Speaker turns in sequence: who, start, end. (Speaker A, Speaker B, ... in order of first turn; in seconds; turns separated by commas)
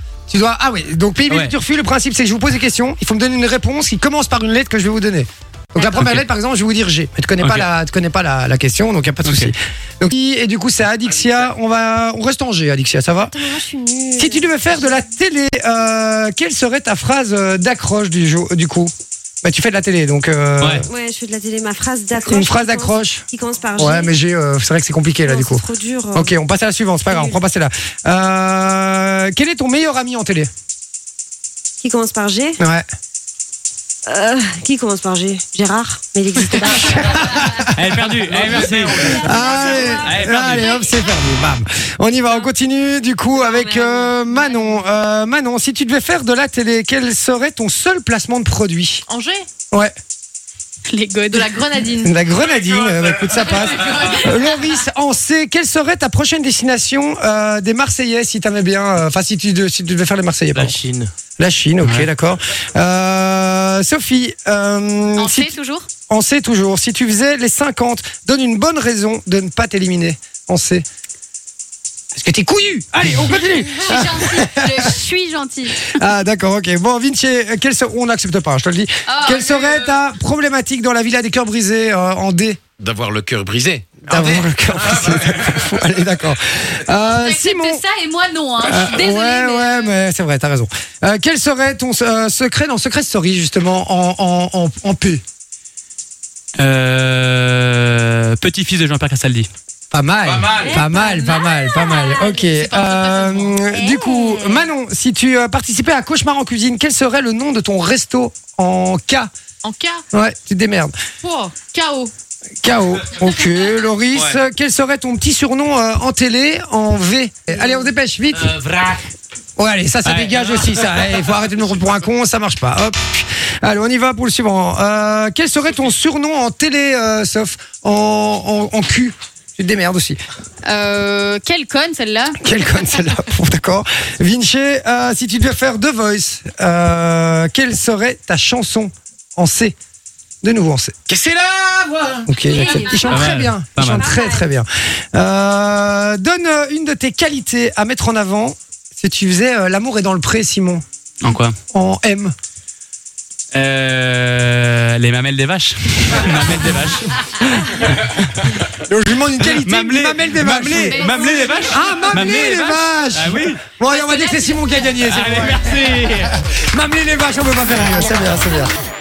Speaker A: 0.3-13.5, Speaker B: 7.4-7.7, Speaker B: 9.2-9.5, Speaker C: 13.3-15.0, Speaker A: 14.2-18.9, Speaker A: 19.4-20.9, Speaker B: 20.6-20.8, Speaker C: 20.9-24.1, Speaker A: 22.2-23.2, Speaker A: 23.8-30.5, Speaker C: 25.2-26.4, Speaker C: 27.1-27.4, Speaker C: 31.8-32.6, Speaker A: 32.6-32.8, Speaker C: 34.1-37.6, Speaker A: 36.5-49.0, Speaker B: 37.7-39.3, Speaker D: 38.1-39.9, Speaker C: 39.2-40.1, Speaker B: 40.0-40.8, Speaker C: 43.3-44.7, Speaker E: 49.1-49.4, Speaker E: 50.9-52.1, Speaker A: 52.0-60.8, Speaker B: 60.5-61.1, Speaker A: 61.4-65.5, Speaker B: 61.8-62.1, Speaker E: 65.2-65.8, Speaker A: 66.1-70.8, Speaker A: 72.1-74.9, Speaker E: 73.5-76.0, Speaker A: 75.9-82.6, Speaker E: 79.1-80.0, Speaker D: 82.8-85.2, Speaker A: 84.0-87.8, Speaker E: 87.0-90.0, Speaker A: 88.6-95.2, Speaker B: 96.6-99.5, Speaker A: 99.9-109.3, Speaker D: 100.4-100.8, Speaker C: 100.5-102.3, Speaker E: 102.1-103.6, Speaker C: 103.8-104.7, Speaker E: 109.6-110.0, Speaker A: 110.1-110.9, Speaker E: 111.2-112.1, Speaker A: 112.6-118.6, Speaker B: 118.5-119.0, Speaker A: 119.6-130.2, Speaker B: 120.0-121.2, Speaker E: 130.6-132.4, Speaker A: 132.4-139.8, Speaker A: 140.4-141.1, Speaker D: 141.1-142.3, Speaker A: 142.2-150.8, Speaker C: 142.4-144.4, Speaker E: 142.7-143.1, Speaker B: 143.1-144.1, Speaker B: 151.2-151.6, Speaker A: 151.7-152.3, Speaker B: 153.5-158.6, Speaker A: 158.7-168.7, Speaker B: 159.4-163.6, Speaker E: 160.7-162.4, Speaker E: 163.9-164.8, Speaker B: 164.9-166.3